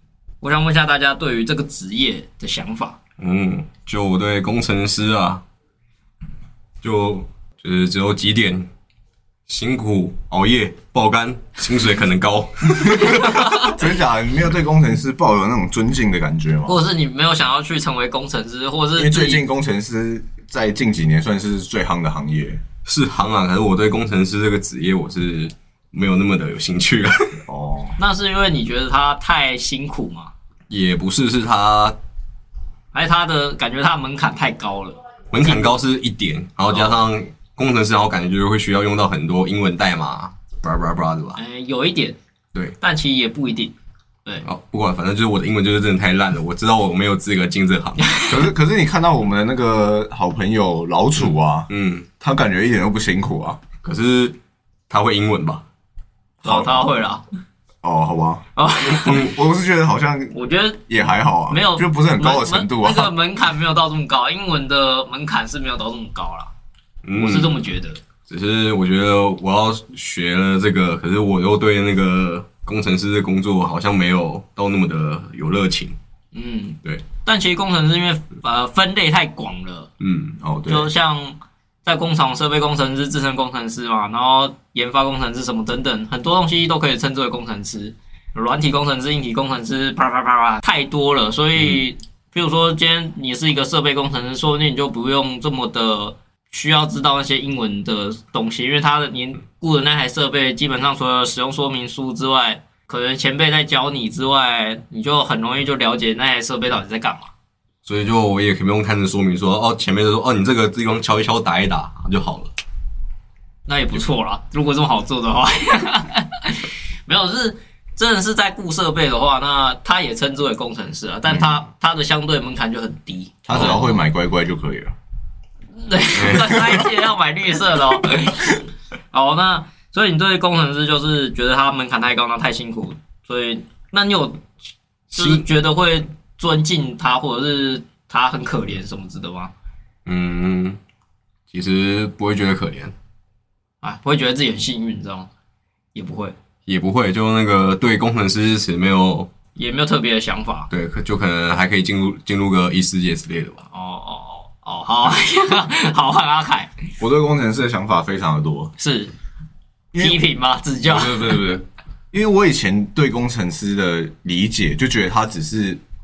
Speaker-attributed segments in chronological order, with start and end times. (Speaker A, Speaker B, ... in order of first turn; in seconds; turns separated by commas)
Speaker A: 0.4-3.0, Speaker B: 3.2-5.4, Speaker B: 6.8-8.7, Speaker B: 9.5-13.6, Speaker C: 12.9-16.8, Speaker A: 13.0-13.7, Speaker A: 16.6-19.4, Speaker C: 18.9-22.6, Speaker B: 22.9-27.4, Speaker C: 27.5-27.9, Speaker A: 28.0-30.3, Speaker B: 30.7-31.9, Speaker A: 32.9-35.8, Speaker B: 35.3-41.4, Speaker A: 41.4-42.2, Speaker A: 42.8-43.7, Speaker B: 44.4-48.1, Speaker A: 48.0-48.3, Speaker C: 48.3-53.6, Speaker B: 51.2-52.1, Speaker B: 53.8-54.4, Speaker B: 54.9-55.6, Speaker A: 56.4-57.2, Speaker C: 56.4-56.9, Speaker C: 57.8-60.3, Speaker A: 58.5-59.3, Speaker A: 60.3-60.9, Speaker C: 60.9-63.1, Speaker A: 61.5-66.5, Speaker B: 67.0-67.7, Speaker A: 67.2-68.0, Speaker B: 68.3-76.0, Speaker A: 76.3-79.9, Speaker B: 80.0-80.4, Speaker C: 80.4-80.9, Speaker A: 80.7-107.3, Speaker B: 107.8-112.5, Speaker A: 113.7-123.8, Speaker C: 123.5-124.9, Speaker B: 123.5-123.8, Speaker A: 125.8-128.6, Speaker B: 126.2-126.6, Speaker C: 126.3-126.8, Speaker A: 129.1-134.4, Speaker A: 135.1-139.5, Speaker B: 135.1-135.4, Speaker B: 140.1-140.8, Speaker B: 141.5-142.9, Speaker A: 143.8-145.3, Speaker A: 145.9-146.3, Speaker B: 146.7-149.3, Speaker A: 149.5-150.7, Speaker B: 150.7-153.6, Speaker A: 153.7-156.7, Speaker C: 157.0-158.7, Speaker A: 158.8-159.1, Speaker C: 159.9-160.2, Speaker A: 160.0-161.4, Speaker C: 160.8-165.8